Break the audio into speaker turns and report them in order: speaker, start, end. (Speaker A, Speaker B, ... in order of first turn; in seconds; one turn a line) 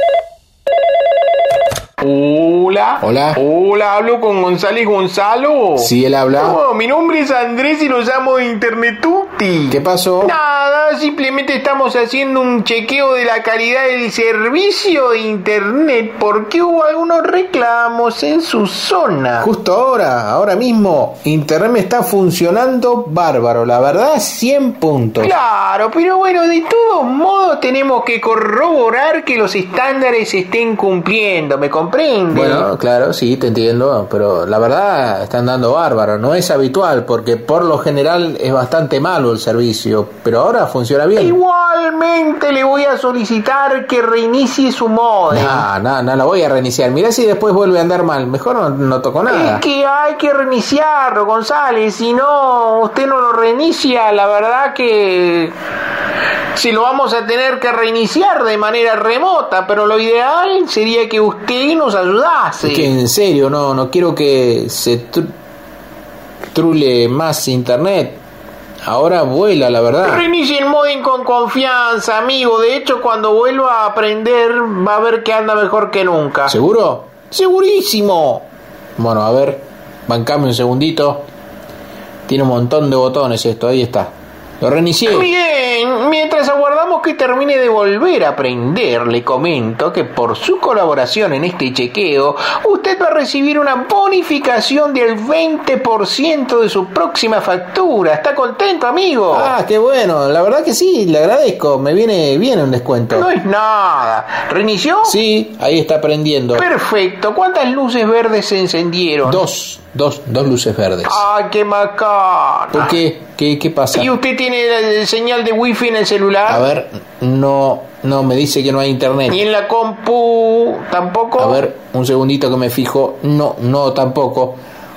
Speaker A: 2.0-19.5
Speaker B: 3.0-3.4
Speaker B: 5.8-6.6
Speaker B: 9.7-10.3
Speaker B: 19.4-25.4
Speaker A: 25.2-32.7
Speaker B: 32.3-41.4
Speaker A: 41.2-45.7
Speaker B: 45.3-49.6
Speaker A: 49.3-55.5
Speaker A: 56.5-62.9
Speaker B: 62.6-65.3
Speaker B: 66.5-68.2
Speaker B: 68.9-70.3
Speaker A: 70.0-76.6
Speaker B: 76.5-78.1
Speaker A: 77.7-78.4
Speaker B: 79.0-81.2
Speaker B: 82.3-85.3
Speaker A: 85.1-99.6
Speaker B: 99.3-103.3
Speaker A: 103.1-105.2
Speaker B: 105.0-106.7
Speaker A: 106.5-109.4
Speaker B: 109.2-111.2
Speaker A: 111.1-113.0
Speaker B: 112.7-114.1
Speaker A: 113.9-116.7
Speaker B: 116.5-119.4
Speaker A: 119.3-121.6
Speaker B: 121.4-124.6